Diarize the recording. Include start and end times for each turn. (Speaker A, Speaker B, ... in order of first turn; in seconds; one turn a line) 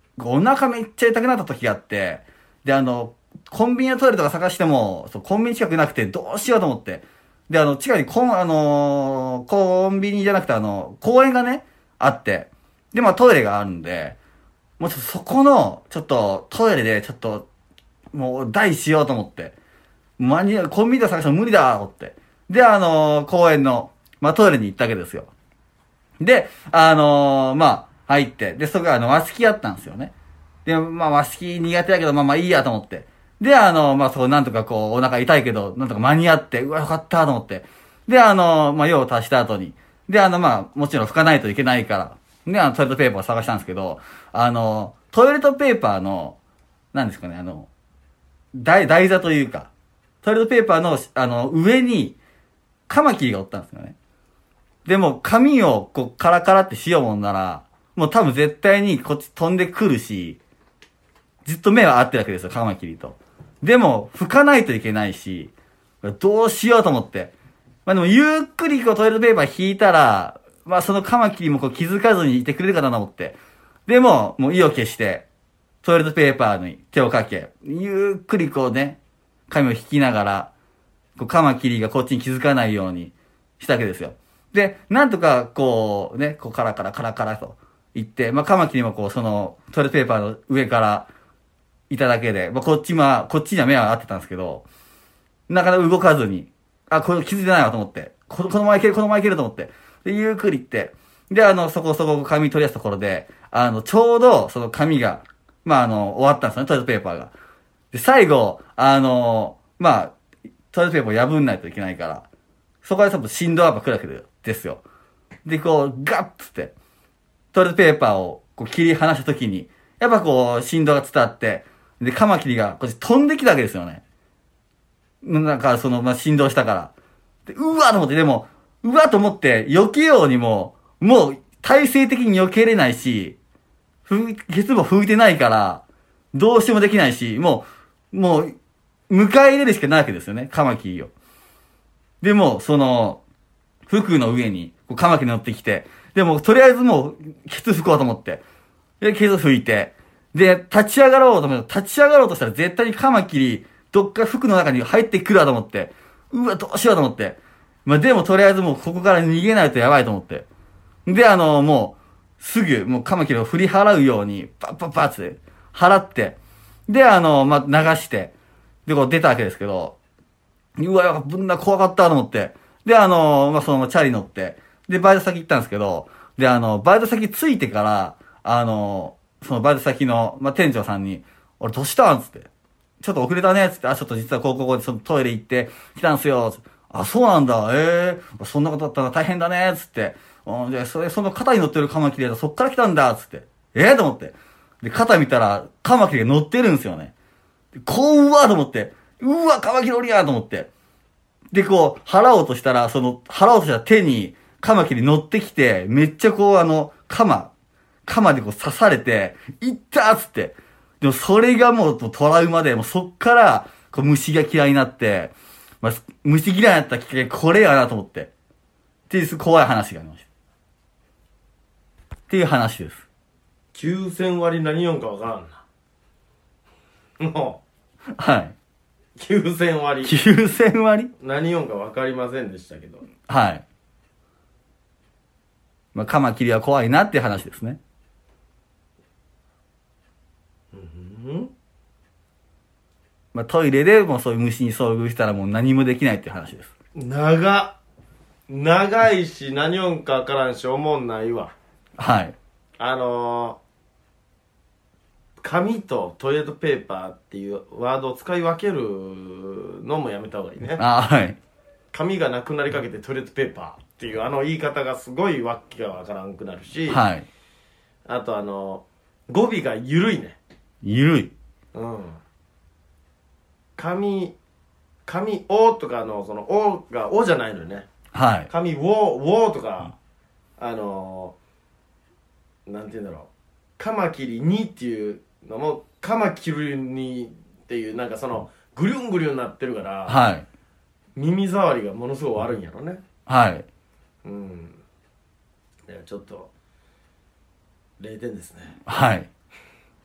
Speaker A: 0.2-14.2
Speaker A: 14.8-17.4
Speaker A: 18.1-19.5
Speaker A: 20.2-25.3
Speaker A: 26.2-30.1
Speaker A: 30.6-46.4
Speaker A: 46.9-47.7
Speaker A: 48.5-49.7
Speaker A: 50.2-52.1
Speaker A: 52.9-53.9
Speaker A: 54.9-60.4
Speaker A: 61.4-65.5
Speaker A: 66.0-67.3
Speaker A: 67.8-75.2
Speaker A: 75.8-79.0
Speaker A: 79.5-80.5
Speaker A: 81.2-91.1
Speaker A: 91.9-94.6
Speaker A: 95.5-107.3
Speaker A: 107.9-110.1
Speaker A: 110.7-112.2
Speaker A: 112.8-114.8
Speaker A: 115.4-116.7
Speaker A: 117.5-124.0
Speaker A: 125.2-126.9
Speaker A: 127.5-133.4
Speaker A: 134.1-138.6
Speaker A: 139.1-141.1
Speaker A: 142.2-143.2
Speaker A: 143.9-148.4
Speaker A: 149.0-160.4
Speaker A: 161.1-166.3
Speaker A: 166.9-168.3
Speaker A: 168.8-169.9
Speaker A: 170.8-182.5
Speaker A: 183.0-197.1
Speaker A: 197.7-200.7
Speaker A: 201.5-207.5
Speaker A: 208.1-218.3
Speaker A: 219.1-220.2
Speaker A: 222.3-223.0
Speaker B: 223.7-225.6
Speaker B: 227.2-227.6
Speaker A: 228.2-228.5
Speaker B: 229.2-230.2
Speaker A: 230.0-231.1
Speaker B: 231.2-233.0
Speaker A: 233.3-233.6
Speaker A: 235.9-237.8
Speaker B: 240.7-241.5
Speaker A: 243.3-246.7
Speaker B: 246.9-247.8
Speaker B: 248.5-251.5
Speaker A: 252.0-252.3
Speaker B: 252.8-253.6
Speaker B: 255.4-260.8
Speaker A: 260.8-261.4
Speaker B: 261.9-267.0
Speaker A: 266.9-267.2
Speaker B: 268.1-270.4
Speaker A: 270.8-271.3
Speaker B: 271.7-272.2
Speaker B: 273.8-274.3
Speaker B: 275.1-277.9
Speaker A: 278.1-278.5
Speaker B: 278.5-279.9
Speaker B: 280.6-281.3
Speaker B: 282.6-290.2
Speaker A: 290.1-290.4
Speaker B: 291.1-293.0
Speaker A: 293.3-293.6
Speaker B: 294.2-294.8
Speaker B: 295.9-296.5
Speaker B: 298.0-298.8
Speaker A: 298.9-299.3